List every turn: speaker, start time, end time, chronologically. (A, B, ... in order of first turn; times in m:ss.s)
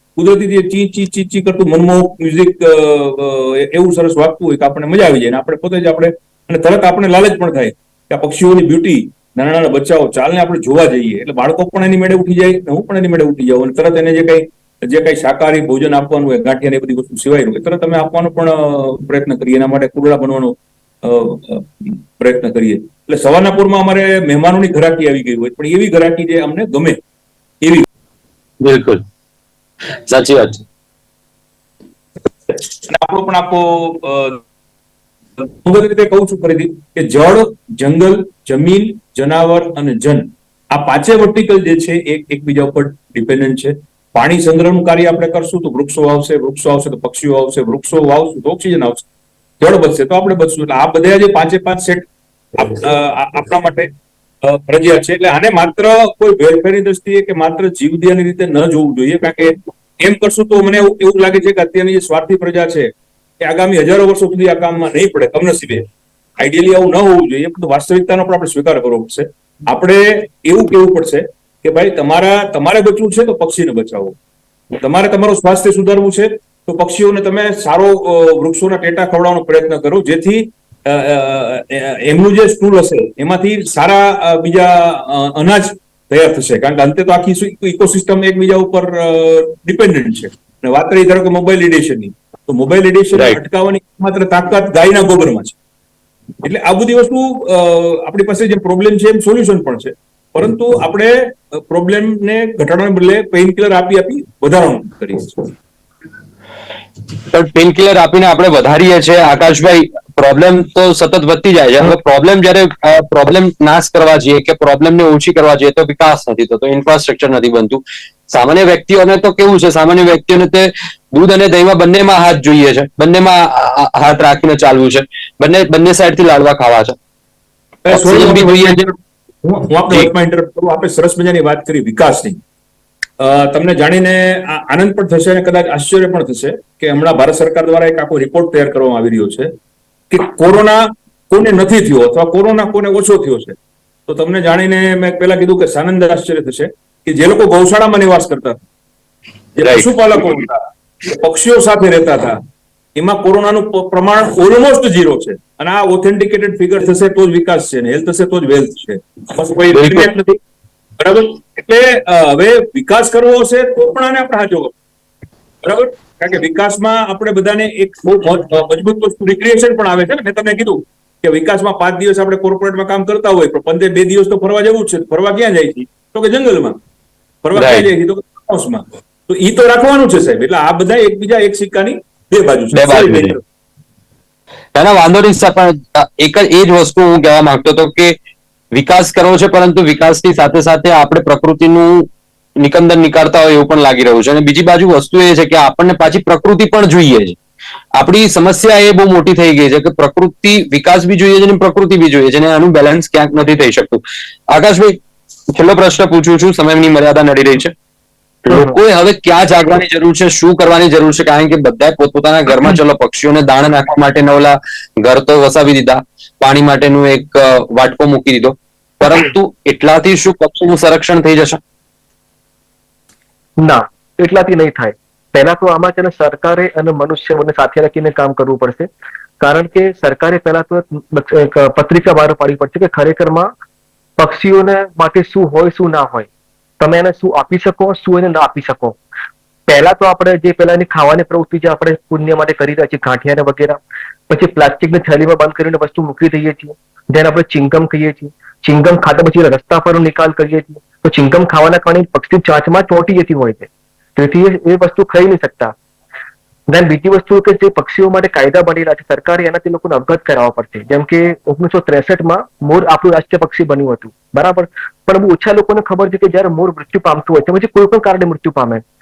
0:00.2-0:27.0 A
0:27.6-0:27.9 A
0:28.6-0:29.0 B
0:30.0-0:30.6 B
0:32.5-0:34.4 A
0:35.4-0:49.0 A
0:49.6-0:53.9 A
0:54.4-1:05.9 A
1:06.4-1:14.2 A
1:14.8-1:35.6 A
1:33.1-1:33.4 B
1:36.4-1:45.5 A
1:47.3-2:07.0 B
2:07.8-2:12.4 A
2:07.9-2:08.9 B
2:13.2-2:19.5 A
2:20.1-2:28.6 A
2:29.6-2:32.4 A
2:29.6-2:29.9 B
2:33.0-2:40.4 A
2:39.7-2:40.2 B
2:41.0-2:44.7 A
2:45.6-2:56.8 A
2:57.4-3:03.4 A
2:57.5-2:57.9 B
3:02.7-3:03.4 B
3:04.7-3:08.2 B
3:08.7-3:17.4 B
3:18.0-3:25.0 B
3:25.5-3:27.7 B
3:28.4-3:41.6 B
3:28.5-3:28.8 C
3:43.6-3:48.9 C
3:49.4-3:53.5 C
3:54.2-3:56.3 C
3:56.8-3:59.0 C
3:59.7-4:15.7 C
4:16.7-4:28.8 C